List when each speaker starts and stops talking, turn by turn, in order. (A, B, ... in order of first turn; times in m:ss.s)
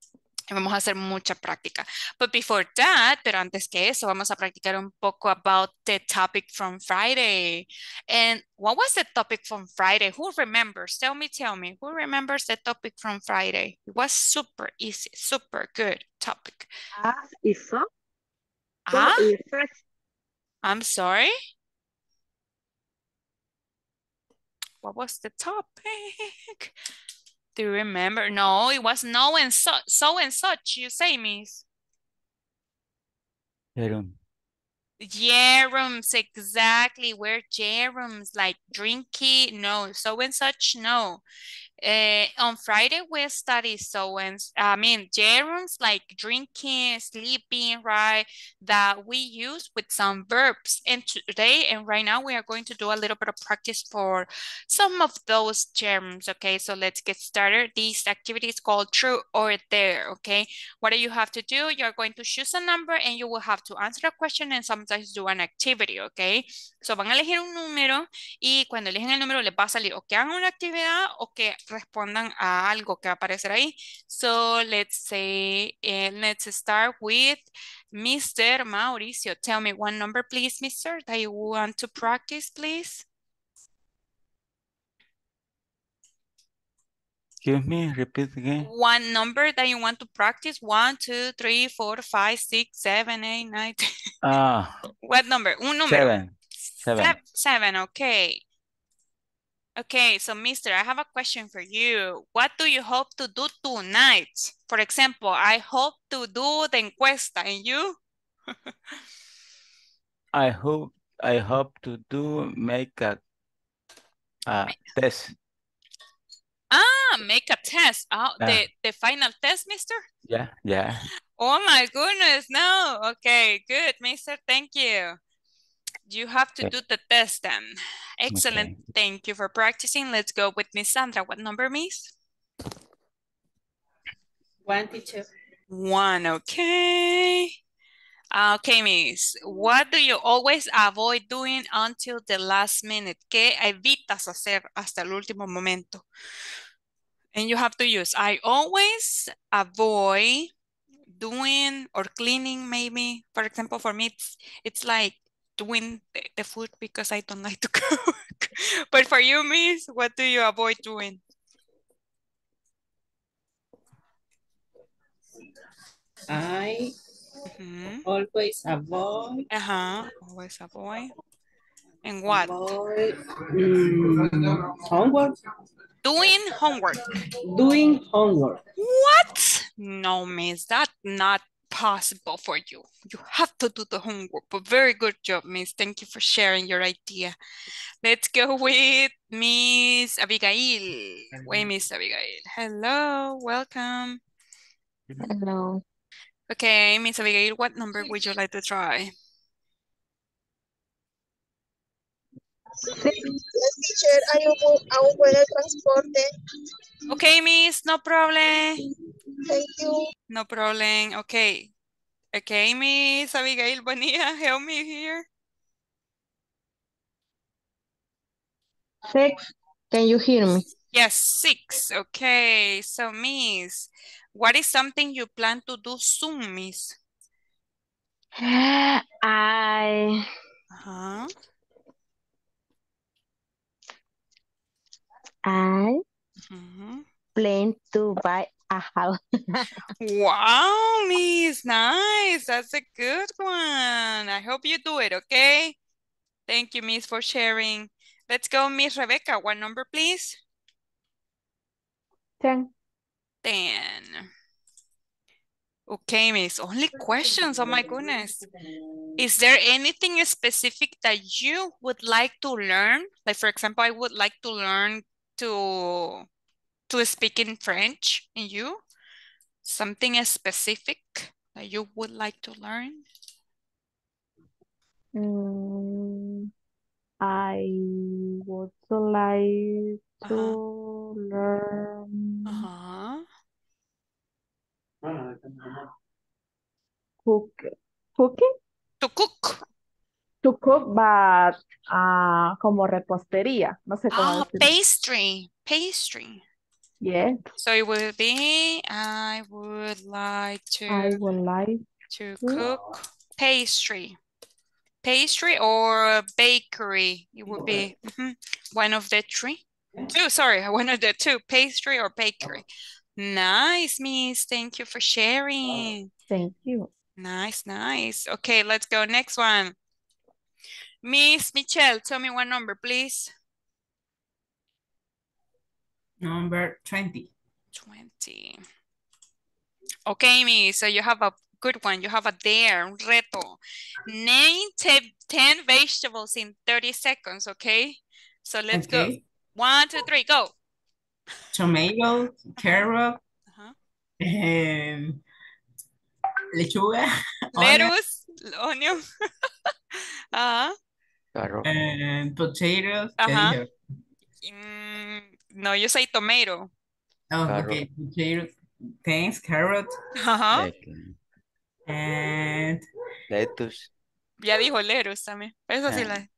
0:00.5-0:16.7 A
0:17.0-0:17.8 B
0:18.9-0:19.3 A
0:18.9-0:19.8 B
0:20.6-0:21.3 A
0:24.8-0:26.7 A
0:27.6-0:31.6 A
0:33.8-0:34.1 C
0:35.0-0:41.2 A
0:41.8-1:23.0 A
1:27.4-1:28.7 C
1:28.6-1:33.8 A
1:34.2-1:34.8 C
1:35.0-1:36.1 A
1:35.9-1:37.2 C
1:36.9-1:38.4 A
1:39.8-1:48.0 A
1:50.3-1:53.2 C
1:54.5-1:55.3 C
1:56.7-2:00.0 A
2:00.3-2:01.1 C
2:01.4-2:05.2 A
2:06.1-2:12.1 A
2:08.3-2:08.8 C
2:14.6-2:15.3 D
2:15.7-2:17.5 A
2:18.3-2:26.0 A
2:27.3-2:30.5 A
2:31.1-2:41.2 A
2:46.3-2:46.8 D
2:47.5-2:48.0 A
2:48.0-2:49.2 D
2:49.5-2:51.1 A
2:52.0-2:52.5 A
2:52.3-2:55.3 D
2:56.0-2:57.0 A
2:57.4-2:58.6 D
2:58.8-3:07.4 A
3:08.0-3:14.2 A
3:15.2-3:15.8 B
3:16.5-3:19.1 A
3:23.1-3:26.2 E
3:27.1-3:28.8 A
3:29.5-3:30.0 E
3:30.3-3:31.7 A
3:32.3-3:35.2 A
3:39.0-3:39.4 B
3:39.9-3:40.7 B
3:40.9-3:47.0 A
3:48.4-3:50.2 B
3:50.7-3:51.3 A
3:55.4-3:56.0 B
3:56.5-3:57.0 A
3:57.3-3:59.7 B
4:00.0-4:05.8 A
4:06.5-4:10.4 A
4:12.4-4:12.7 F
4:13.4-4:14.2 A
4:15.9-4:18.4 A
4:19.2-4:26.2 A
4:26.9-4:28.8 A
4:29.6-4:33.0 A
4:35.1-4:36.5 F
4:37.2-4:42.7 F
4:40.2-4:40.6 A
4:42.4-4:43.2 A
4:47.2-4:48.5 F
4:49.0-4:49.6 A
4:50.4-4:54.7 F
4:54.1-4:56.4 A
4:57.0-4:57.4 F
4:57.6-5:01.2 A
5:00.9-5:01.8 F
5:02.1-5:04.2 A
5:05.0-5:16.1 A
5:16.3-5:16.9 F
5:17.2-5:19.7 A
5:21.0-5:23.3 A
5:26.2-5:27.3 G
5:27.7-5:28.6 A
5:30.1-5:40.5 A
5:38.7-5:39.2 G
5:41.5-5:43.2 G
5:44.2-5:45.2 G
5:46.5-5:47.9 G
5:47.6-5:49.0 A
5:50.3-5:50.7 A
5:51.3-5:51.7 C
5:51.6-5:53.7 G
5:53.2-5:53.6 A
5:54.4-5:56.7 A
5:57.3-6:00.0 G
5:57.4-5:57.8 C
6:00.2-6:00.7 A
6:00.5-6:01.2 C
6:01.9-6:02.8 G
6:03.3-6:03.9 C
6:04.4-6:06.3 A
6:05.9-6:06.1 C